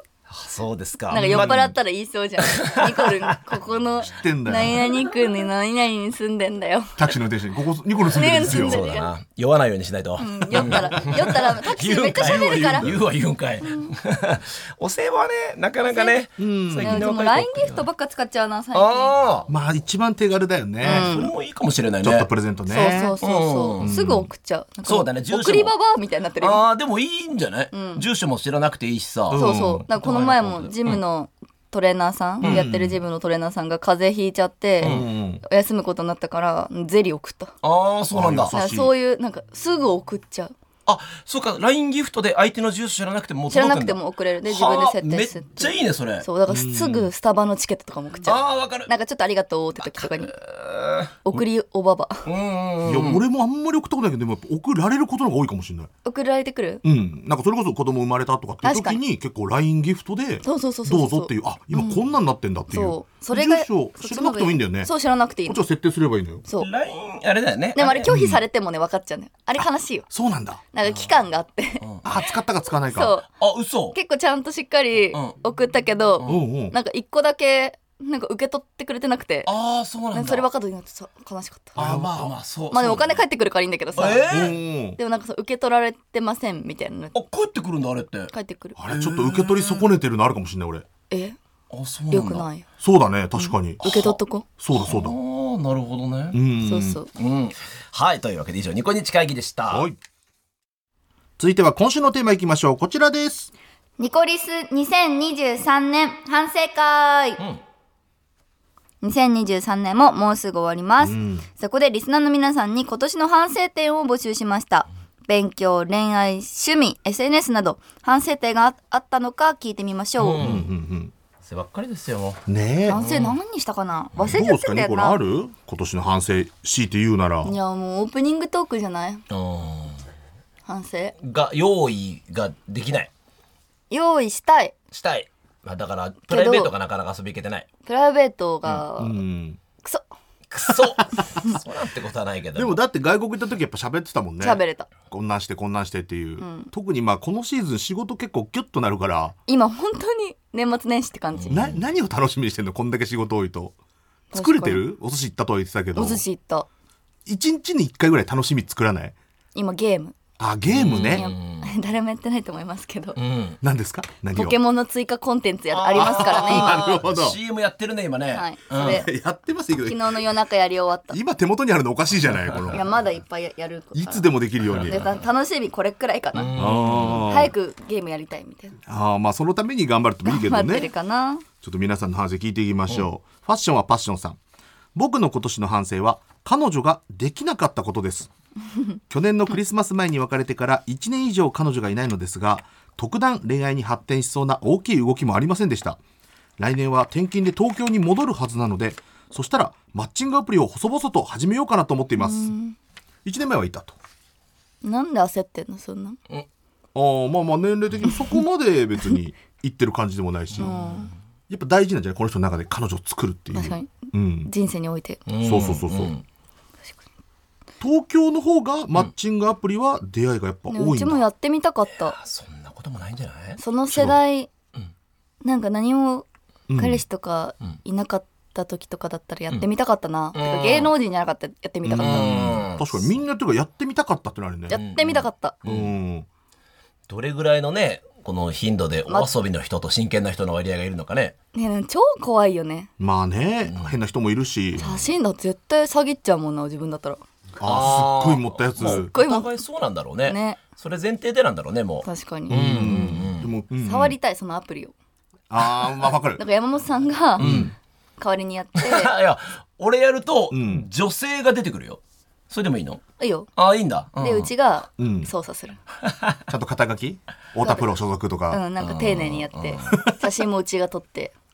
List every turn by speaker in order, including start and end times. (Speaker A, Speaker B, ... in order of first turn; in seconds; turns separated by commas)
Speaker A: 0.3-1.7, Speaker B: 1.1-7.1, Speaker C: 1.1-1.7, Speaker A: 2.4-3.4, Speaker C: 4.1-4.9, Speaker C: 7.0-8.8, Speaker B: 8.0-9.1, Speaker A: 8.4-17.8, Speaker B: 10.2-12.9, Speaker C: 10.5-11.1, Speaker C: 12.2-13.1, Speaker B: 13.6-13.9, Speaker B: 15.9-16.2, Speaker C: 16.4-17.1, Speaker B: 16.8-19.1, Speaker A: 18.7-19.5, Speaker C: 19.5-21.1, Speaker A: 20.8-22.3, Speaker B: 20.8-21.3, Speaker C: 22.0-23.1, Speaker B: 22.7-26.6, Speaker A: 23.0-24.0, Speaker C: 23.8-24.3, Speaker A: 24.8-25.8, Speaker A: 26.4-31.0, Speaker B: 27.7-28.0, Speaker C: 29.3-29.9, Speaker B: 29.3-37.5, Speaker C: 32.4-33.0, Speaker C: 34.8-35.4, Speaker A: 37.6-38.5, Speaker C: 38.1-38.9, Speaker B: 38.5-40.5, Speaker A: 40.9-46.2, Speaker B: 43.5-50.3, Speaker C: 46.5-47.1, Speaker A: 48.2-48.9, Speaker A: 49.8-51.4, Speaker B: 51.2-52.2, Speaker A: 52.2-53.2, Speaker C: 52.8-55.9, Speaker B: 56.0-56.8, Speaker C: 56.8-64.9, Speaker B: 58.6-59.0, Speaker B: 60.4-62.0, Speaker B: 62.7-65.6, Speaker C: 65.4-66.4, Speaker A: 66.6-68.2, Speaker B: 67.7-70.1, Speaker C: 68.1-68.4, Speaker C: 70.1-70.6, Speaker B: 70.7-72.3, Speaker A: 70.8-71.1, Speaker C: 72.0-73.1, Speaker B: 72.8-73.3, Speaker A: 73.4-74.0, Speaker B: 73.9-79.5, Speaker A: 76.2-76.4, Speaker C: 76.2-76.7, Speaker A: 79.4-80.5, Speaker B: 80.1-81.8, Speaker A: 81.8-83.2, Speaker C: 81.8-82.3, Speaker B: 82.7-84.2, Speaker A: 83.9-84.5, Speaker C: 84.3-85.0, Speaker B: 85.0-87.2, Speaker A: 87.1-88.3, Speaker B: 88.3-88.8, Speaker C: 88.8-90.8, Speaker A: 88.9-90.0, Speaker B: 91.1-91.3, Speaker A: 91.7-92.5, Speaker B: 92.1-92.6, Speaker C: 92.8-93.9, Speaker B: 93.4-94.4, Speaker A: 93.8-94.2, Speaker C: 94.6-95.2, Speaker A: 94.7-96.4, Speaker C: 96.3-97.0, Speaker B: 96.6-97.1, Speaker A: 97.2-99.8, Speaker C: 99.7-100.0, Speaker C: 101.4-103.5, Speaker B: 104.0-107.4, Speaker B: 109.0-120.4, Speaker C: 111.0-111.4, Speaker A: 120.2-120.7, Speaker C: 120.4-121.1, Speaker A: 121.4-123.3, Speaker C: 122.5-123.0, Speaker B: 122.9-125.2, Speaker C: 124.2-127.5, Speaker B: 127.4-129.2, Speaker A: 129.3-130.0, Speaker B: 130.7-131.1, Speaker A: 131.2-133.1, Speaker B: 133.9-134.7, Speaker A: 134.9-137.7, Speaker B: 136.3-136.7, Speaker B: 137.8-139.2, Speaker C: 139.0-139.6, Speaker A: 140.5-142.8, Speaker C: 142.5-149.3, Speaker B: 144.4-144.9, Speaker B: 146.4-146.7, Speaker B: 149.5-151.7, Speaker A: 151.3-151.8, Speaker C: 151.5-153.7, Speaker B: 154.3-154.8, Speaker C: 154.3-156.2, Speaker B: 155.9-156.7, Speaker C: 157.2-159.1, Speaker B: 159.5-160.2, Speaker C: 160.4-161.3, Speaker A: 160.7-161.7, Speaker B: 161.1-163.2, Speaker A: 163.2-163.6, Speaker C: 163.6-164.6, Speaker B: 164.3-166.9, Speaker A: 165.7-169.0, Speaker C: 165.9-167.4, Speaker B: 168.3-169.1, Speaker C: 168.8-170.2, Speaker B: 169.8-171.2, Speaker C: 171.1-172.8, Speaker B: 172.7-174.3, Speaker C: 173.9-175.0, Speaker A: 174.8-175.1, Speaker B: 174.8-176.6, Speaker A: 176.3-177.3, Speaker C: 176.6-177.5, Speaker B: 177.2-178.8, Speaker C: 178.8-180.9, Speaker B: 180.2-181.4, Speaker C: 181.6-184.4, Speaker C: 184.9-188.3, Speaker C: 189.1-196.0, Speaker C: 196.6-202.5, Speaker B: 202.2-202.8, Speaker C: 203.2-203.9, Speaker B: 204.8-206.2, Speaker C: 206.9-210.7, Speaker A: 210.6-210.9, Speaker B: 210.6-211.1, Speaker C: 211.5-214.5, Speaker B: 213.5-213.9, Speaker B: 214.4-215.2, Speaker A: 215.3-216.2, Speaker C: 215.4-216.1, Speaker C: 217.8-221.2, Speaker B: 220.7-222.2, Speaker A: 222.1-223.6, Speaker B: 223.6-224.5, Speaker C: 223.9-224.2, Speaker B: 225.4-232.4, Speaker C: 226.7-227.0, Speaker A: 230.3-230.9, Speaker C: 231.8-234.8, Speaker A: 232.0-233.1, Speaker B: 234.7-235.6, Speaker A: 234.7-235.9, Speaker C: 235.6-236.3, Speaker A: 237.1-241.3, Speaker B: 241.5-242.9, Speaker C: 243.0-244.8, Speaker A: 244.8-245.0, Speaker B: 244.8-247.2, Speaker C: 247.6-249.1, Speaker A: 247.6-253.5, Speaker B: 248.8-249.5, Speaker B: 250.2-250.6, Speaker B: 252.0-253.2, Speaker C: 252.5-254.2, Speaker B: 253.8-254.9, Speaker C: 255.5-256.4, Speaker B: 256.4-257.5, Speaker A: 257.4-257.7, Speaker C: 257.4-257.7, Speaker B: 258.2-259.1, Speaker A: 258.8-263.0, Speaker C: 260.5-260.9, Speaker B: 263.2-263.5, Speaker A: 263.6-264.5, Speaker B: 264.2-265.8, Speaker C: 265.0-265.3, Speaker A: 266.0-266.4, Speaker C: 266.5-268.6, Speaker B: 267.6-267.9, Speaker B: 268.5-271.3, Speaker A: 268.8-269.9, Speaker C: 269.9-270.2